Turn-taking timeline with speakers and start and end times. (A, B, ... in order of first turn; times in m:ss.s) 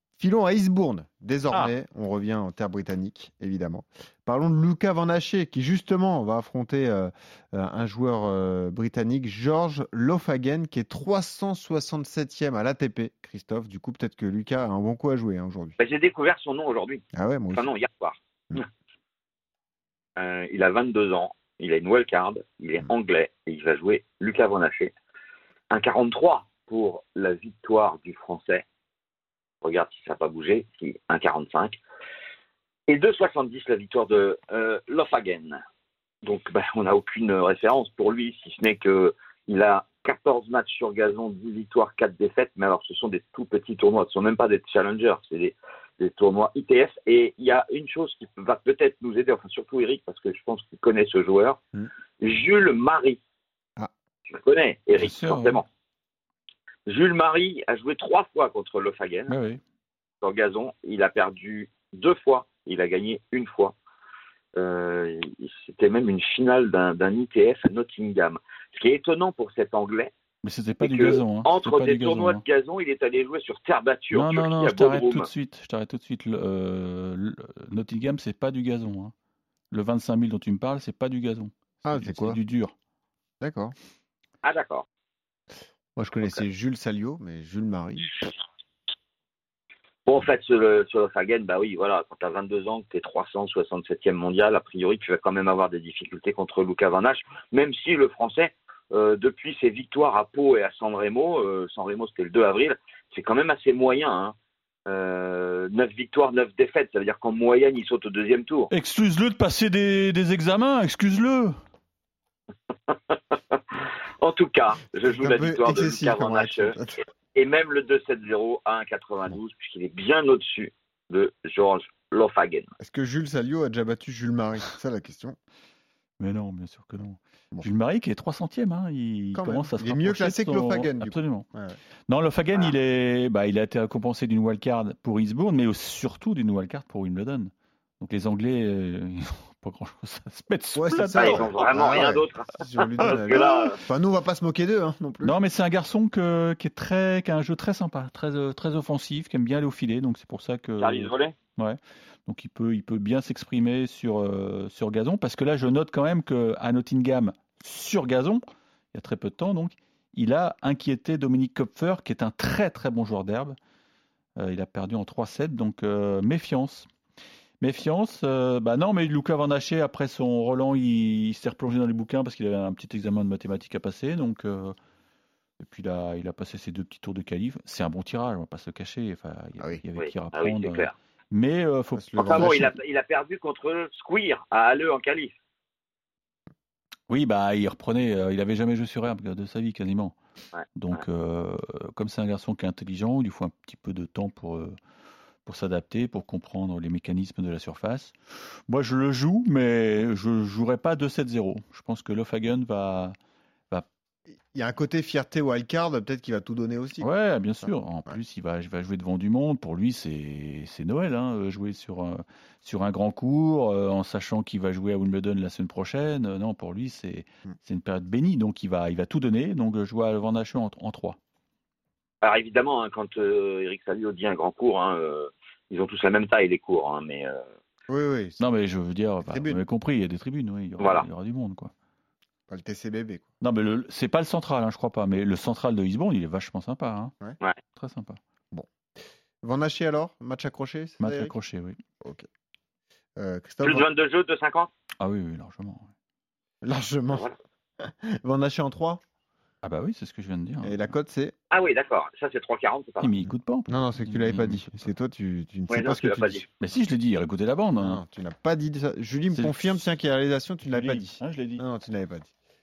0:00.2-0:15.8 A
0:15.8-0:18.6 B
0:17.1-0:17.6 A
0:20.2-0:24.9 B
0:25.7-0:28.6 B
0:29.6-0:31.8 B
0:32.9-0:35.6 B
0:36.2-0:51.6 B
0:52.2-0:53.2 B
0:54.3-0:55.6 B
0:54.9-0:55.6 C
0:56.9-0:59.3 B
0:59.3-0:59.6 C
1:00.2-1:03.7 B
1:04.6-1:10.1 B
1:10.4-1:12.4 C
1:10.8-1:15.3 B
1:14.1-1:19.1 C
1:19.7-1:22.7 C
1:21.8-1:22.4 A
1:23.4-1:23.7 A
1:24.4-1:24.8 B
1:26.0-1:28.3 A
1:30.0-1:44.3 B
1:44.9-1:48.7 B
1:48.7-1:51.6 C
1:52.9-1:56.8 B
1:55.0-1:57.0 A
1:57.3-2:02.7 B
2:02.8-2:05.4 A
2:06.2-2:11.5 C
2:09.3-2:11.8 A
2:12.1-2:21.8 C
2:20.7-2:25.4 A
2:21.1-2:23.8 B
2:23.0-2:23.6 C
2:25.2-2:38.4 C
2:30.8-2:31.4 B
2:38.9-2:43.6 C
2:44.4-2:46.9 C
2:47.6-2:54.7 C
2:55.6-3:02.7 C
3:00.0-3:00.9 B
3:01.9-3:02.6 A
3:02.2-3:05.3 B
3:07.1-3:10.2 C
3:10.6-3:11.0 B
3:10.8-3:14.7 C
3:15.4-3:23.2 C
3:24.5-3:27.1 A
3:27.0-3:41.2 C
3:27.6-3:28.2 A
3:42.2-3:47.4 B
3:47.9-3:48.4 A
3:48.4-3:51.7 C
3:49.2-3:49.6 A
3:50.8-3:51.1 B
3:52.5-3:53.3 A
3:53.4-3:57.1 C
3:57.8-3:58.2 C
3:59.4-4:01.3 A
4:01.0-4:01.8 C
4:03.2-4:03.9 A
4:03.6-4:04.7 B
4:05.0-4:05.9 C
4:06.6-4:07.2 A
4:07.8-4:09.0 A
4:09.6-4:10.9 C
4:10.6-4:11.3 A
4:11.5-4:13.1 B
4:13.0-4:14.7 C
4:13.7-4:16.4 A
4:15.7-4:16.5 B
4:16.6-4:18.0 C
4:17.8-4:22.3 A
4:19.3-4:20.0 C
4:20.6-4:21.6 C